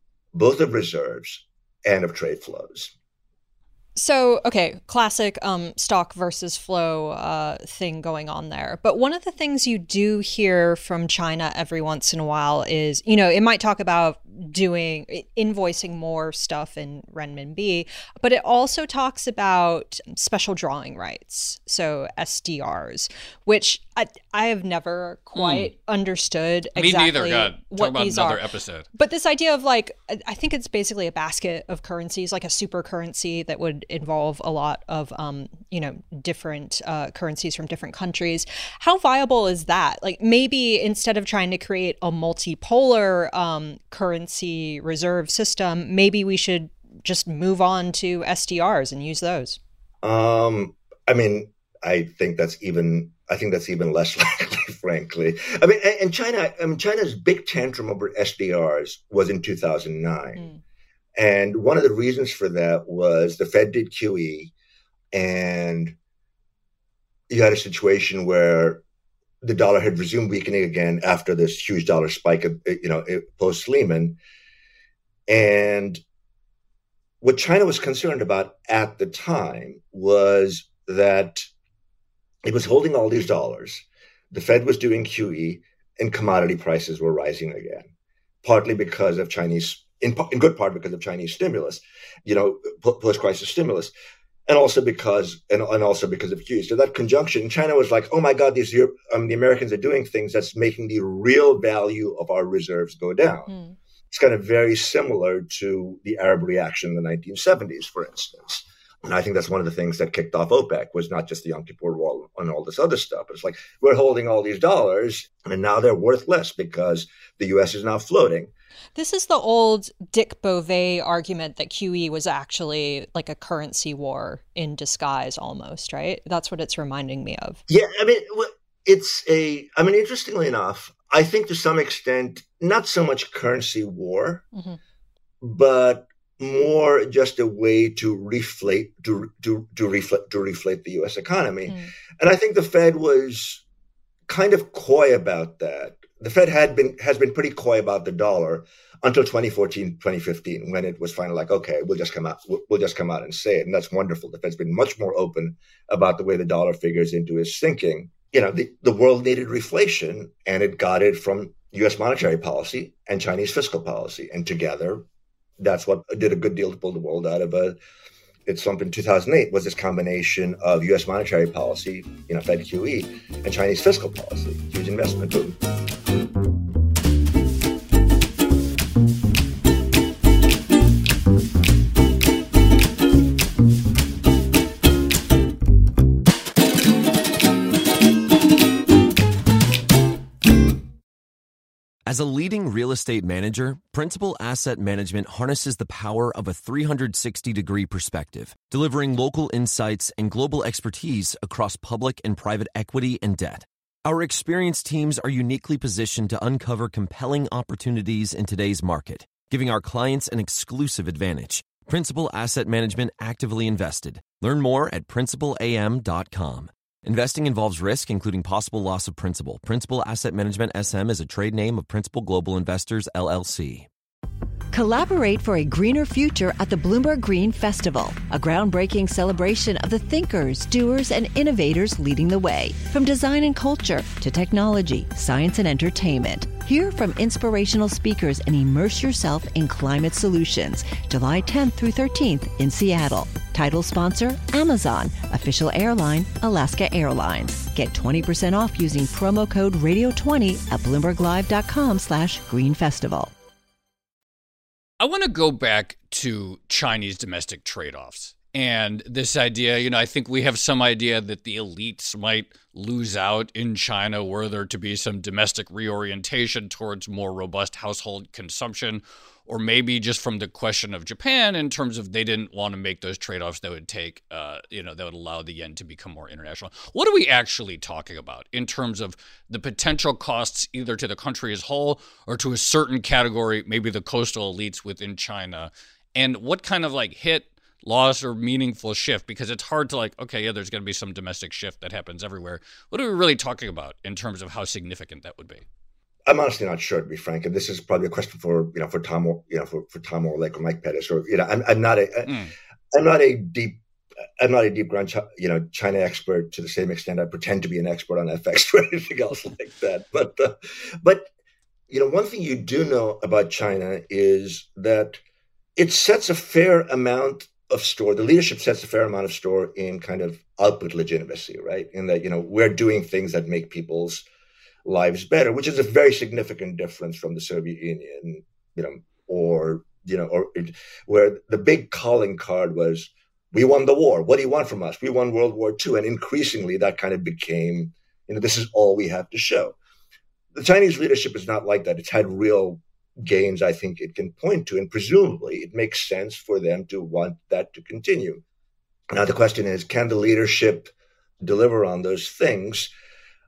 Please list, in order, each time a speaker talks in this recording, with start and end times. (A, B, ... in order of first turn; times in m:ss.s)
0:00.3-0:02.9 A
0:04.0-0:28.4 B
0:25.4-0:25.7 C
0:26.7-0:28.9 C
0:28.9-0:49.6 B
0:50.0-1:00.5 A
1:01.2-1:04.5 A
1:05.1-1:05.9 A
1:07.3-1:08.8 A
1:09.4-1:14.2 A
1:15.3-1:16.0 A
1:17.2-1:21.5 A
1:22.4-1:27.9 A
1:28.4-1:33.9 A
1:34.5-1:43.5 A
1:44.1-1:58.5 A
1:59.0-2:07.6 B
2:07.7-2:14.4 A
2:15.4-2:23.6 A
2:24.3-2:45.0 A
2:45.6-2:47.8 A
2:48.4-2:55.6 A
3:12.0-3:43.9 D
3:44.7-4:13.3 E
4:15.0-4:55.6 C
4:56.2-5:02.4 A
5:02.2-5:02.5 C
5:02.9-5:03.8 A
5:04.4-5:11.3 A
5:11.9-5:15.2 A
5:15.8-5:24.2 A
5:24.8-5:39.8 A
5:40.5-5:48.4 A
5:49.1-5:52.9 A